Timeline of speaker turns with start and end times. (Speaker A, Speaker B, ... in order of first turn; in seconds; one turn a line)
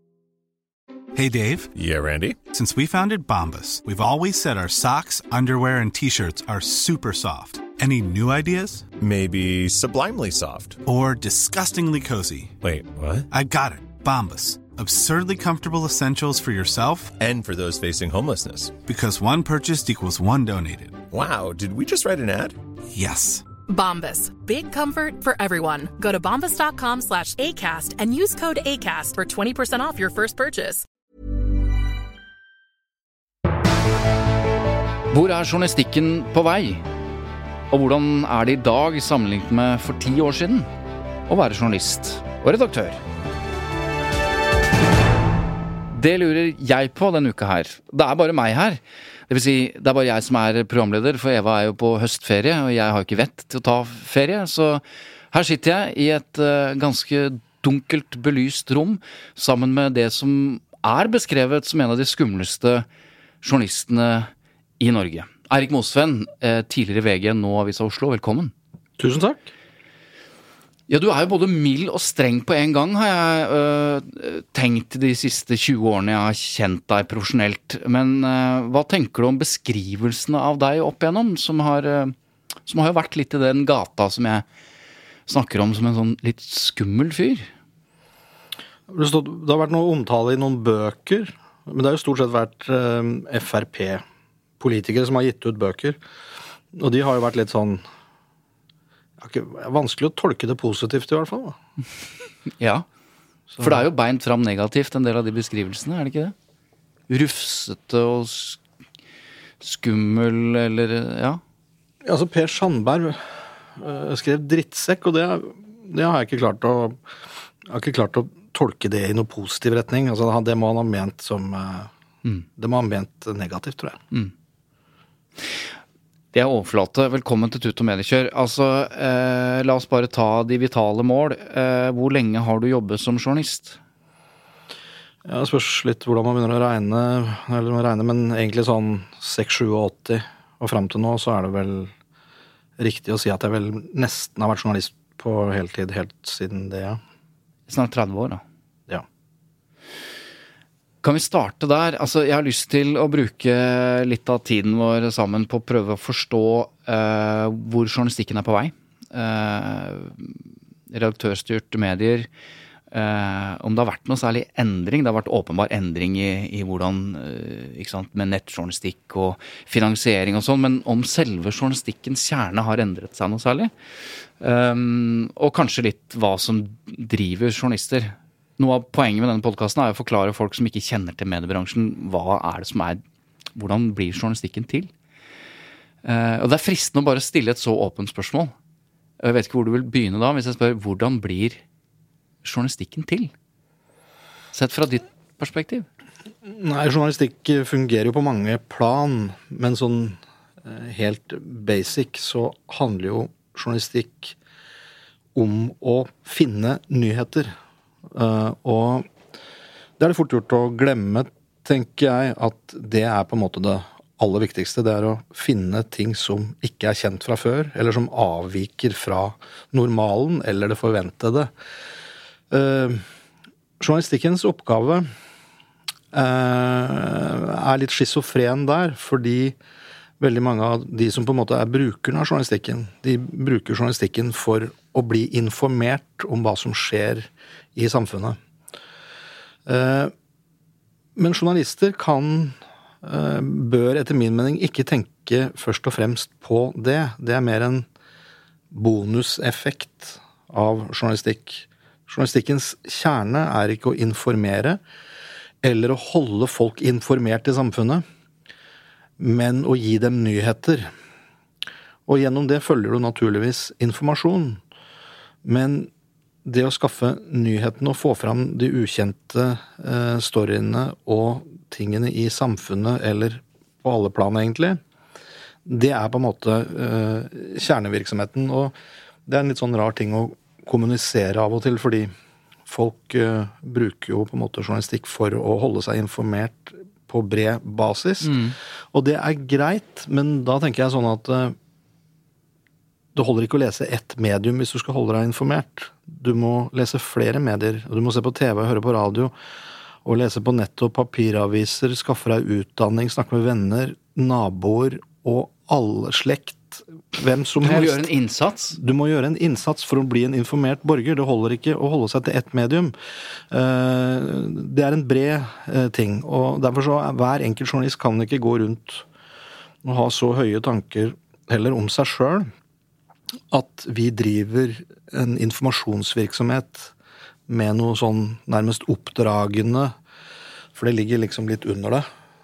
Speaker A: 1.1-1.7
Speaker B: 1.8-2.4
Speaker A: 2.5-8.9
Speaker B: 8.9-10.8
Speaker A: 10.8-12.6
Speaker B: 12.6-13.3
Speaker A: 13.3-17.1
Speaker B: 17.2-18.8
Speaker A: 18.9-21.0
Speaker B: 21.1-22.6
Speaker A: 22.9-23.4
Speaker C: 23.7-30.9
Speaker D: 35.1-36.8
Speaker D: 37.7-40.7
Speaker D: 41.3-43.0
Speaker D: 45.9-62.9
Speaker D: 63.4-68.5
Speaker E: 69.0-69.5
Speaker D: 70.9-82.2
Speaker D: 82.7-84.5
Speaker D: 85.3-87.5
Speaker E: 88.9-94.0
Speaker E: 94.6-96.0
Speaker E: 96.7-97.8
Speaker E: 99.2-101.6
Speaker D: 102.6-102.9
Speaker E: 103.6-103.8
Speaker D: 103.6-106.3
Speaker D: 107.1-108.6
Speaker D: 109.6-111.4
Speaker E: 112.0-117.0
Speaker E: 117.7-121.9
Speaker E: 122.6-124.0
Speaker D: 126.3-133.8
Speaker E: 135.2-141.9
Speaker E: 142.8-147.0
Speaker D: 147.7-148.4
Speaker D: 151.0-162.3
Speaker D: 162.9-173.7
Speaker D: 174.4-183.0
Speaker D: 183.6-184.9
Speaker D: 186.0-188.5
Speaker D: 189.2-191.6
Speaker D: 192.4-193.3
Speaker D: 194.5-195.9
Speaker E: 196.4-204.4
Speaker E: 205.3-207.6
Speaker E: 208.1-209.1
Speaker E: 210.0-221.5
Speaker E: 222.5-223.0
Speaker E: 223.8-225.1
Speaker E: 226.1-229.6
Speaker E: 230.2-238.4
Speaker E: 239.7-240.1
Speaker E: 241.2-247.9
Speaker E: 248.7-254.8
Speaker E: 255.6-258.1
Speaker E: 259.2-260.9
Speaker E: 262.1-264.6
Speaker E: 265.4-265.9
Speaker E: 266.4-274.8
Speaker E: 275.6-282.1
Speaker E: 282.7-288.4
Speaker D: 288.2-288.6
Speaker E: 288.9-291.6
Speaker E: 293.1-299.3
Speaker E: 300.0-308.1
Speaker D: 307.6-308.8
Speaker E: 308.8-312.9
Speaker E: 313.5-319.1
Speaker E: 319.8-322.5
Speaker E: 323.5-326.9
Speaker E: 327.5-329.9
Speaker E: 330.8-332.1